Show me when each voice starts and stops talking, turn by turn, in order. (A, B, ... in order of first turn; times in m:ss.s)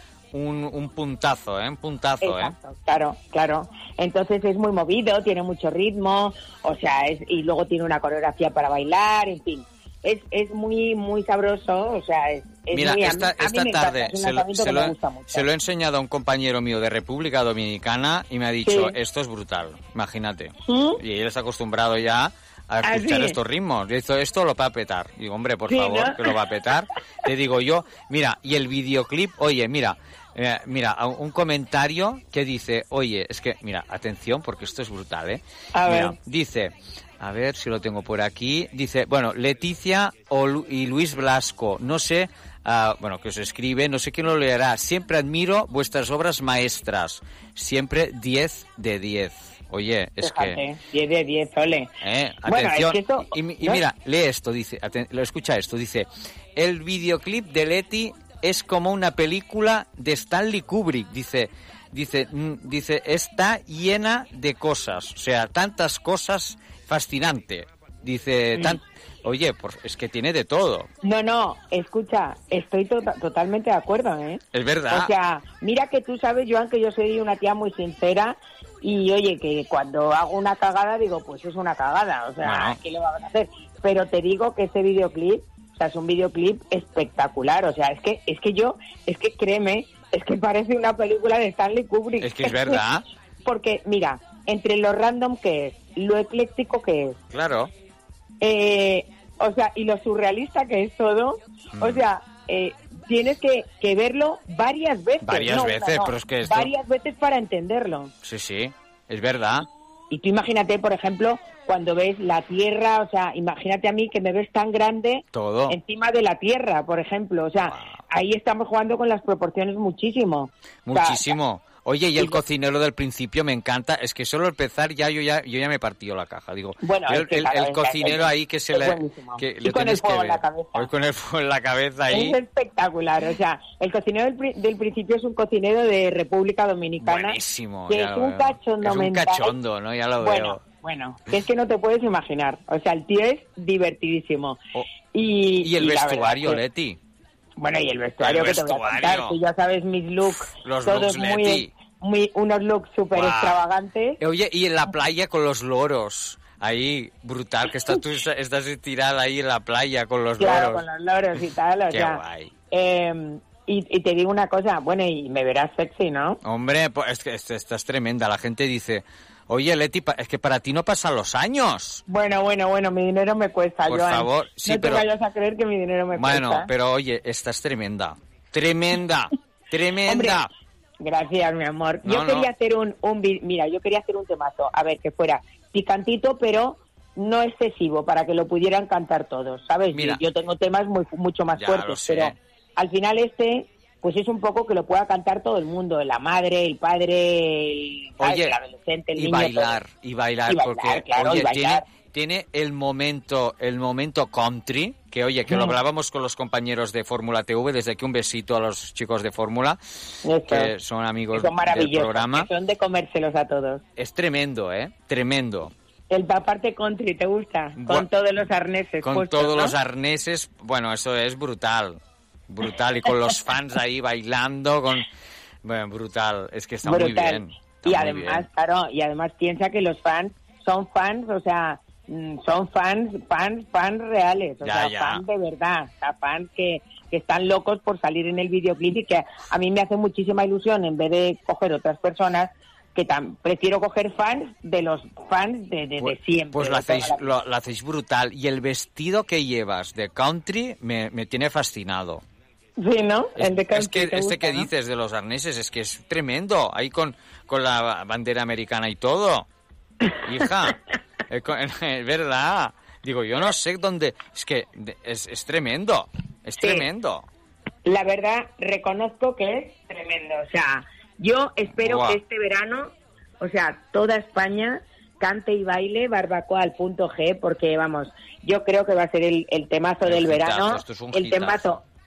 0:00.3-0:02.5 A
0:02.2-0:15.4 B
0:12.7-0:50.6 A
0:18.6-0:18.9 B
0:20.7-0:21.0 B
0:22.8-0:23.4 B
0:25.7-0:26.3 B
0:35.7-0:36.1 B
0:50.2-0:51.9 B
0:52.0-1:10.9 A
0:52.4-0:53.8 B
1:11.0-1:32.8 B
1:14.5-1:15.1 A
1:22.4-1:22.8 A
1:32.2-1:33.0 A
1:33.4-1:37.2 B
1:37.3-1:37.7 A
1:38.4-1:48.1 B
1:41.7-1:42.0 A
1:45.2-1:46.7 A
1:48.2-1:49.7 A
1:50.1-2:01.3 B
1:55.3-1:55.8 A
1:57.7-1:58.0 A
2:00.8-2:12.4 A
2:06.8-2:10.9 B
2:12.1-2:17.4 B
2:17.0-2:20.6 A
2:17.9-2:19.5 B
2:20.2-2:24.6 B
2:25.1-2:26.6 B
2:25.6-2:27.0 A
2:27.6-2:34.2 B
2:28.2-2:29.4 A
2:30.4-2:31.7 A
2:33.1-2:33.6 A
2:34.2-2:40.8 A
2:40.4-2:46.4 B
2:41.9-2:42.5 A
2:46.4-2:52.0 A
2:52.1-2:56.7 B
2:53.9-2:55.1 A
2:56.2-3:00.5 A
3:00.1-3:00.4 B
3:01.0-3:19.8 B
3:02.0-3:02.5 A
3:09.9-3:10.2 A
3:11.6-3:12.4 A
3:18.2-3:18.6 A
3:19.2-3:29.8 A
3:20.5-3:21.8 B
3:25.5-3:25.7 B
3:30.2-3:30.7 B
3:30.5-3:32.5 A
3:31.3-3:33.8 B
3:34.0-3:35.7 A
3:36.1-3:39.7 B
3:37.8-3:38.1 A
3:39.0-3:45.1 A
3:45.6-3:48.4 A
3:46.8-4:07.3 B
3:54.6-3:55.2 A
4:06.0-4:12.2 A
4:12.8-4:14.7 B
4:13.4-4:19.5 A
4:20.2-4:27.2 A
4:26.6-4:26.8 B
4:27.8-4:41.8 B
4:31.8-4:32.2 A
4:40.0-4:41.8 A